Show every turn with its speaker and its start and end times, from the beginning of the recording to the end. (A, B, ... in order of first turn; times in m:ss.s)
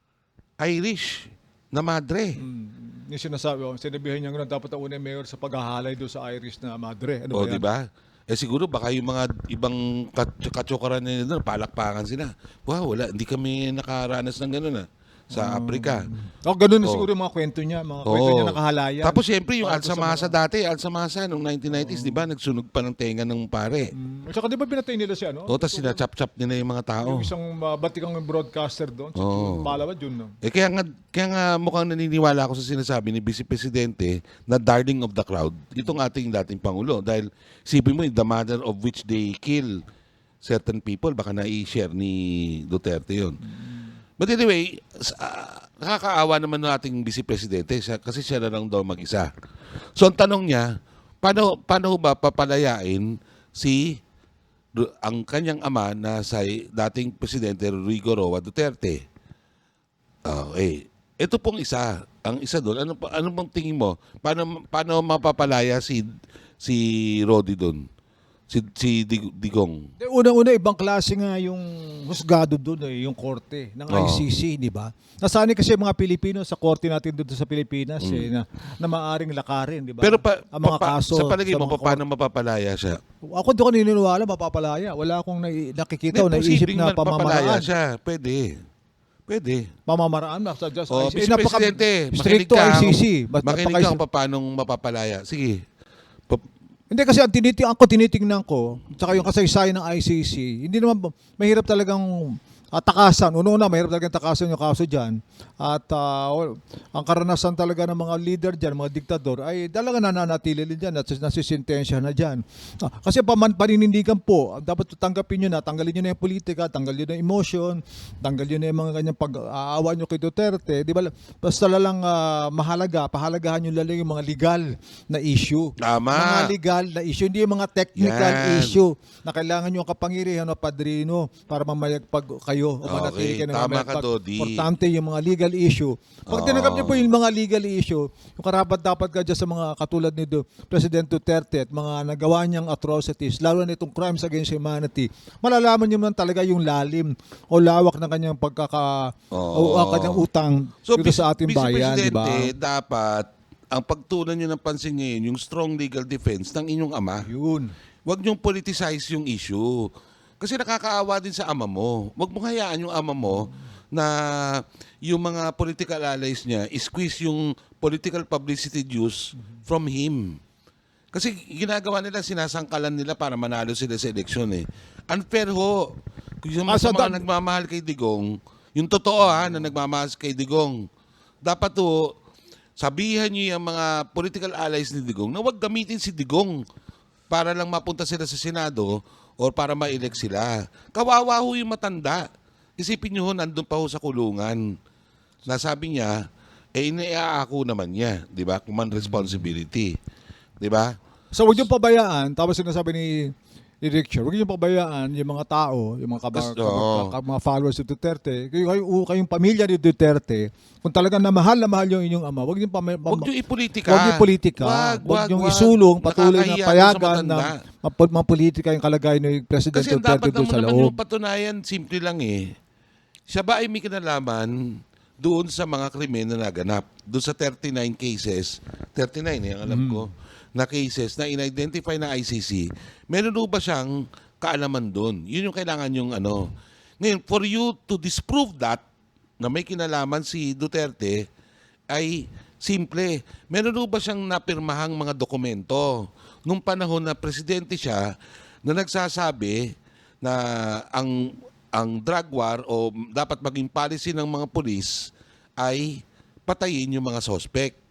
0:00.6-0:02.4 A
0:02.4-0:07.7 B
0:07.3-0:16.1 A
0:15.3-0:20.4 B
0:18.0-0:23.9 A
0:21.7-0:22.2 B
0:23.9-0:26.0 B
0:25.5-0:27.3 A
0:27.0-0:30.4 B
0:29.2-0:29.8 A
0:30.4-0:39.8 A
0:40.4-0:43.4 A
0:44.2-0:49.3 A
0:50.0-0:54.0 A
0:54.8-0:59.0 A
1:00.3-1:06.1 A
1:06.6-1:07.8 A
1:08.5-1:09.8 A
1:10.0-1:22.0 B
1:13.9-1:14.3 A
1:18.0-1:18.3 A
1:20.0-1:23.0 A
1:23.4-1:27.7 B
1:26.1-1:28.5 A
1:29.3-1:29.7 A
1:29.9-1:34.0 B
1:30.9-1:35.6 A
1:36.9-2:32.5 B
2:05.8-2:06.5 A
2:08.0-2:08.8 A
2:12.8-2:14.7 A
2:16.3-2:17.1 A
2:29.3-2:30.2 A
2:30.9-2:37.3 A
2:37.2-2:37.7 B
2:38.1-2:50.4 A
2:51.1-3:00.8 A
2:56.7-2:57.2 B
3:01.4-3:02.1 A
3:02.8-3:06.6 A
3:07.3-3:12.2 A
3:12.8-3:14.8 A
3:15.5-3:16.2 A
3:16.8-3:20.0 A
3:20.6-3:20.9 A
3:21.3-3:33.3 B
3:26.3-3:27.1 A
3:33.1-3:37.6 A
3:33.9-3:41.0 B
3:39.7-3:42.5 A
3:43.3-3:58.8 A
3:49.6-3:50.0 B
3:59.4-4:01.3 A
4:01.9-4:08.1 A
4:08.6-4:09.7 A
4:10.2-4:17.8 A